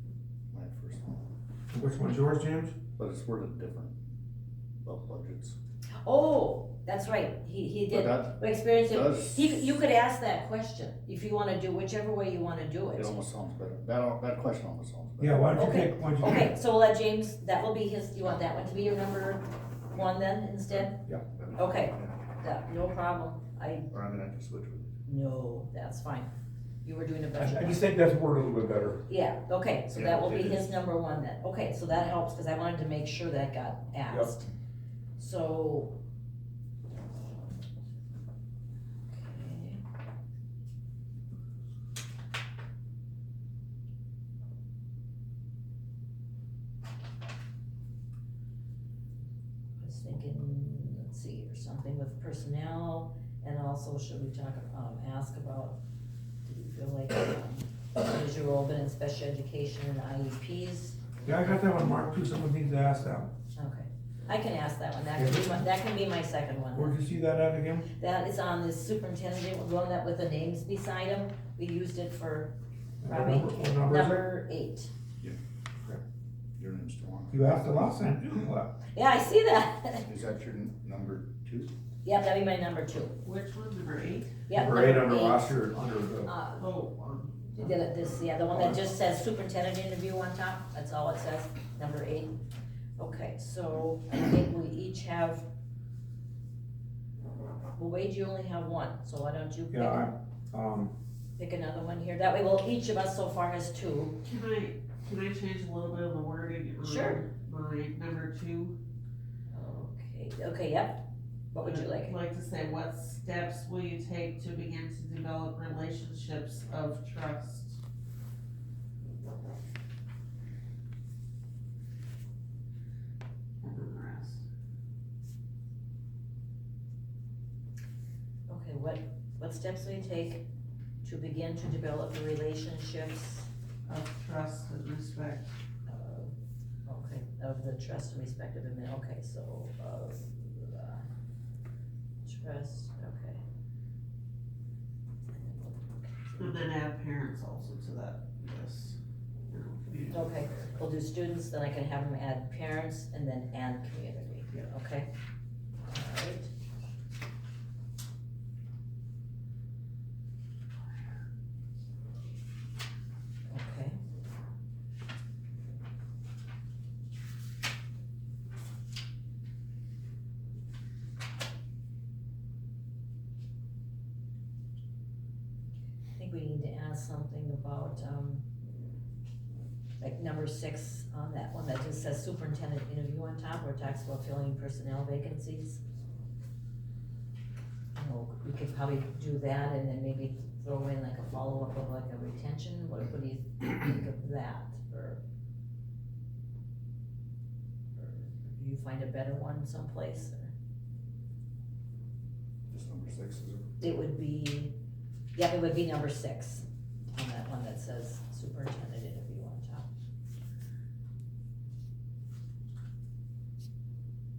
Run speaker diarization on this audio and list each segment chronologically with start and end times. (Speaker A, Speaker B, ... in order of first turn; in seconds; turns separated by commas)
Speaker A: 0.5-1.3, Speaker B: 1.7-2.8, Speaker A: 3.0-4.0, Speaker A: 4.8-5.6, Speaker C: 6.0-13.2, Speaker A: 7.9-9.5, Speaker A: 12.9-15.6, Speaker B: 15.2-16.5, Speaker C: 15.5-21.0, Speaker A: 21.3-22.2, Speaker C: 21.6-23.9, Speaker A: 23.9-24.9, Speaker C: 25.1-26.3, Speaker C: 26.9-27.9, Speaker B: 27.4-29.0, Speaker C: 29.1-34.5, Speaker A: 29.9-30.7, Speaker C: 35.2-36.0, Speaker C: 39.1-39.8, Speaker C: 49.8-55.8, Speaker C: 56.5-61.0, Speaker B: 61.2-63.3, Speaker C: 63.5-67.0, Speaker B: 65.2-65.6, Speaker B: 66.8-67.9, Speaker C: 68.0-74.9, Speaker B: 73.0-74.2, Speaker A: 76.6-77.4, Speaker B: 77.3-78.7, Speaker C: 78.9-80.1, Speaker A: 80.0-81.7, Speaker C: 82.0-83.2, Speaker D: 83.2-84.4, Speaker C: 84.5-85.6, Speaker B: 84.5-86.3, Speaker C: 86.3-86.7, Speaker D: 86.6-87.8, Speaker C: 87.5-92.4, Speaker C: 93.0-95.5, Speaker C: 97.8-100.1, Speaker B: 99.7-100.9, Speaker C: 101.4-104.2, Speaker D: 104.2-108.8, Speaker C: 106.8-107.2, Speaker C: 109.5-112.2, Speaker D: 111.6-117.8, Speaker D: 123.6-124.4, Speaker C: 128.5-130.4, Speaker C: 131.0-133.5, Speaker D: 133.9-135.5, Speaker C: 135.9-136.3, Speaker C: 136.9-141.1, Speaker C: 142.2-143.4, Speaker C: 145.3-146.7, Speaker D: 146.4-149.0, Speaker D: 149.5-150.7, Speaker C: 150.1-155.1, Speaker C: 155.9-156.5, Speaker C: 163.5-164.0, Speaker C: 176.2-178.4, Speaker C: 180.0-185.8, Speaker C: 187.9-195.2, Speaker C: 198.0-200.5, Speaker A: 202.7-203.7, Speaker C: 203.8-204.7, Speaker C: 205.3-209.9